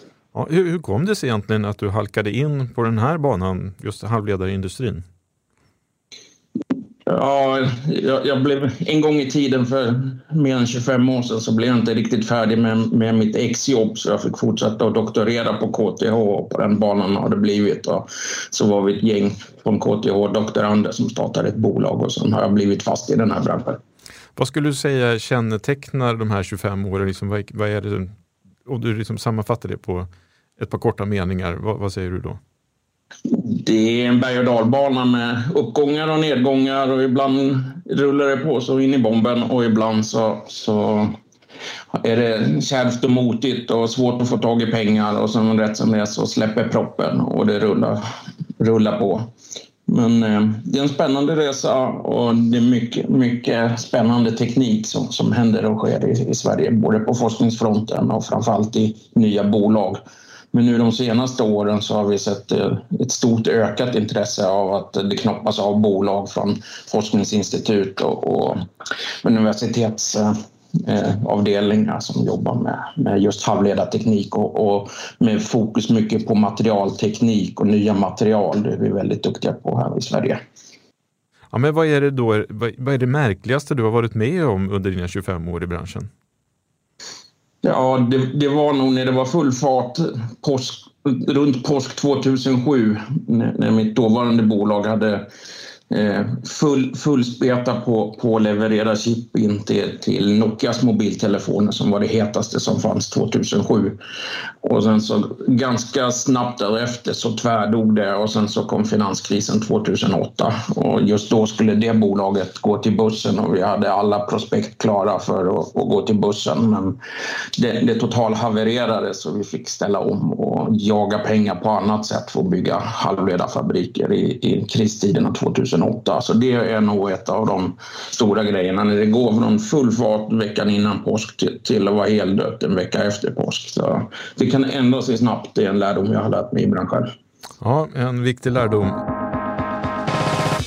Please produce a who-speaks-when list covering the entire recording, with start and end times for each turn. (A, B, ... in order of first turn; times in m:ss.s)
0:00.3-0:05.0 A
0:07.1-0:23.8 B
0:24.4-0:28.1 A
0:28.7-0:32.4 A
0:33.3-0:41.2 B
0:41.9-0:48.0 B
0:48.6-0:49.3 B
0:49.9-1:00.0 B
1:00.5-1:08.6 B
1:09.2-1:20.4 B
1:21.5-1:26.1 A
1:27.6-1:35.3 B
1:35.9-1:44.0 B
1:44.6-1:57.0 B
1:57.6-2:17.1 B
2:17.6-2:19.0 A